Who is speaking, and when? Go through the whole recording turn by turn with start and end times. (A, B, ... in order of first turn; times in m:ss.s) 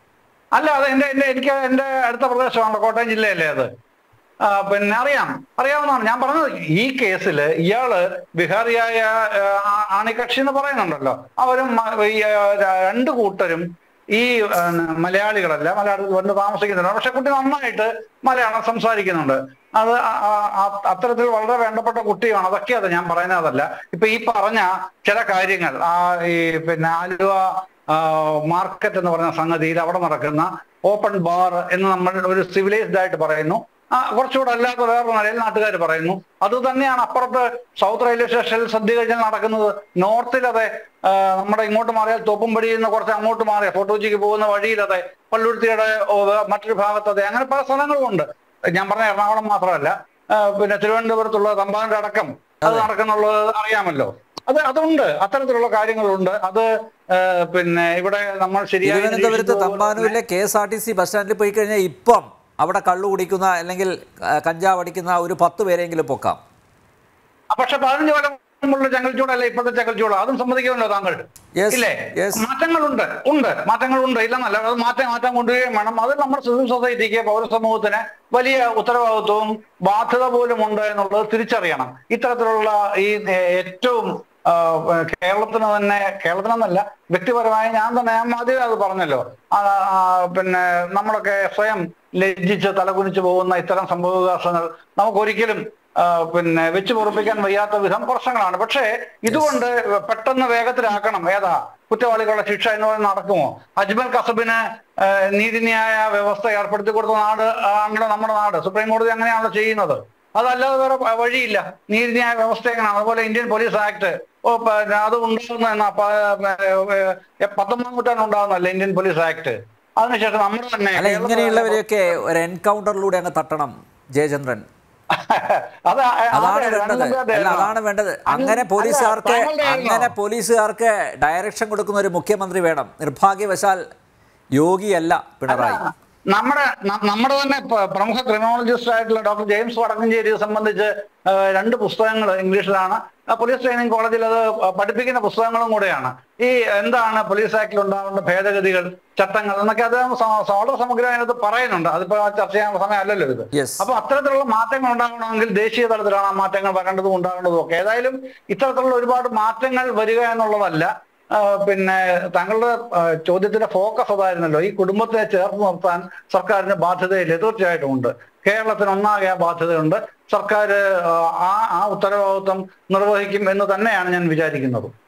0:00.5-0:03.7 A
0:04.4-1:00.1 A
0:52.6-0:52.9 B
0:58.8-1:06.4 B
1:07.5-2:01.8 A
1:11.6-1:12.4 B
1:39.3-1:39.6 B
2:01.0-2:04.6 B
2:05.1-2:07.7 A
2:06.3-2:13.8 B
2:08.3-2:10.1 A
2:14.6-2:15.8 B
2:15.5-2:54.9 A
2:33.5-2:33.8 B